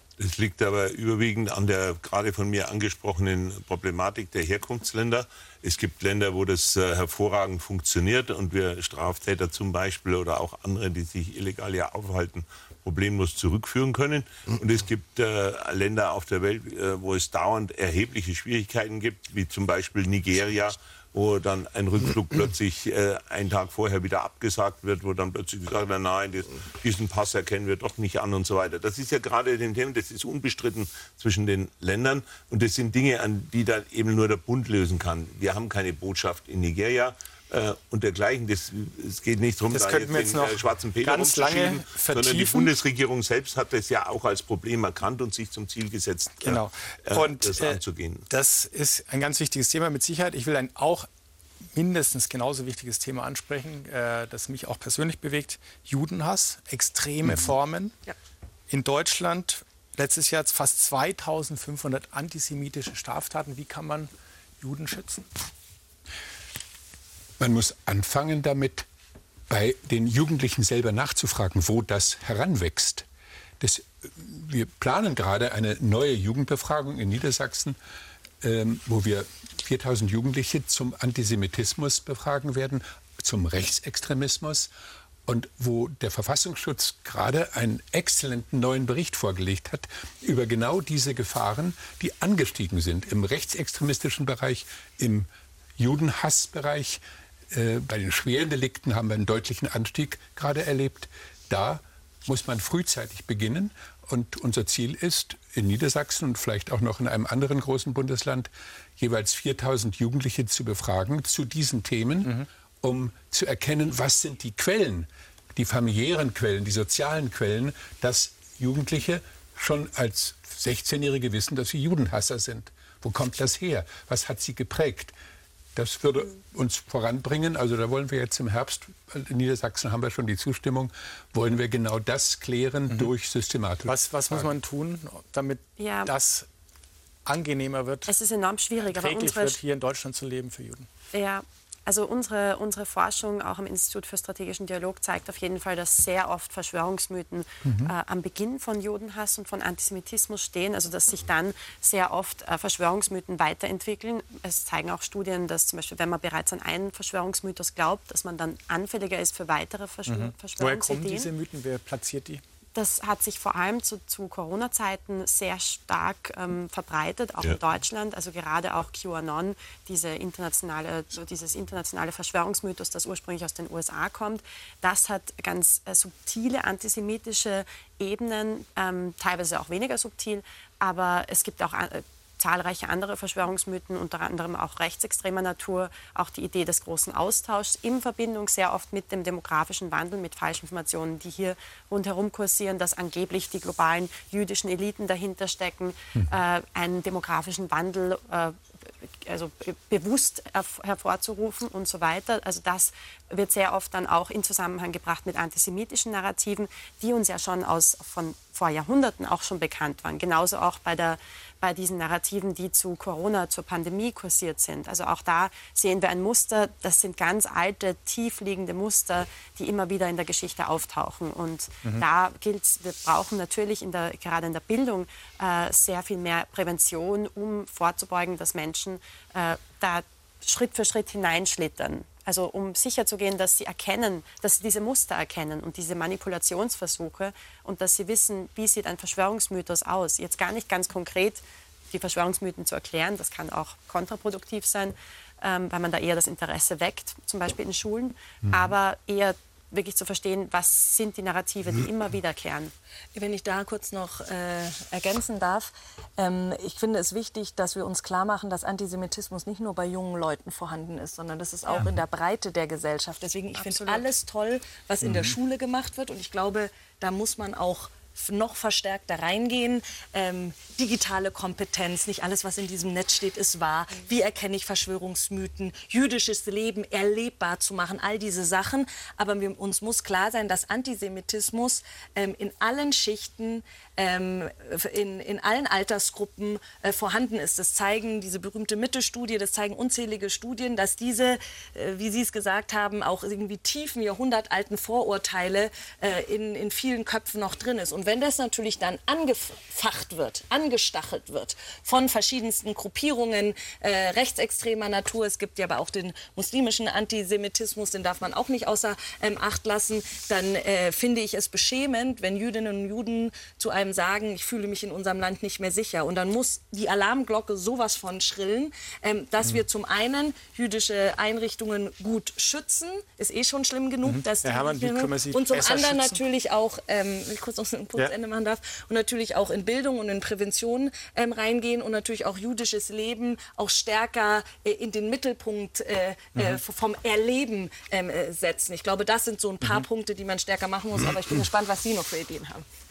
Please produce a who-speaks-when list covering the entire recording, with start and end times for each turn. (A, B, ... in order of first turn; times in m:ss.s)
0:00.2-0:48.3 A
0:39.7-0:42.7 B
0:46.4-0:51.1 B
0:51.7-0:58.0 B
0:58.7-1:04.1 B
1:04.6-1:05.3 B
1:07.4-1:08.9 C
1:09.5-1:13.1 C
1:13.6-1:17.8 C
1:18.4-1:24.7 C
1:25.3-2:05.1 C
2:05.8-2:14.5 C
2:13.8-2:16.5 B
2:15.8-2:16.1 D
2:17.3-2:18.1 B
2:18.1-2:19.6 D
2:18.9-2:20.9 B
2:21.1-2:41.3 D
2:27.7-2:27.9 C
2:40.1-2:42.4 B
2:42.8-4:12.7 D
4:13.2-5:42.6 E
4:23.6-4:24.1 D
4:25.1-4:25.3 B
5:24.0-5:26.2 B
5:36.4-5:36.6 B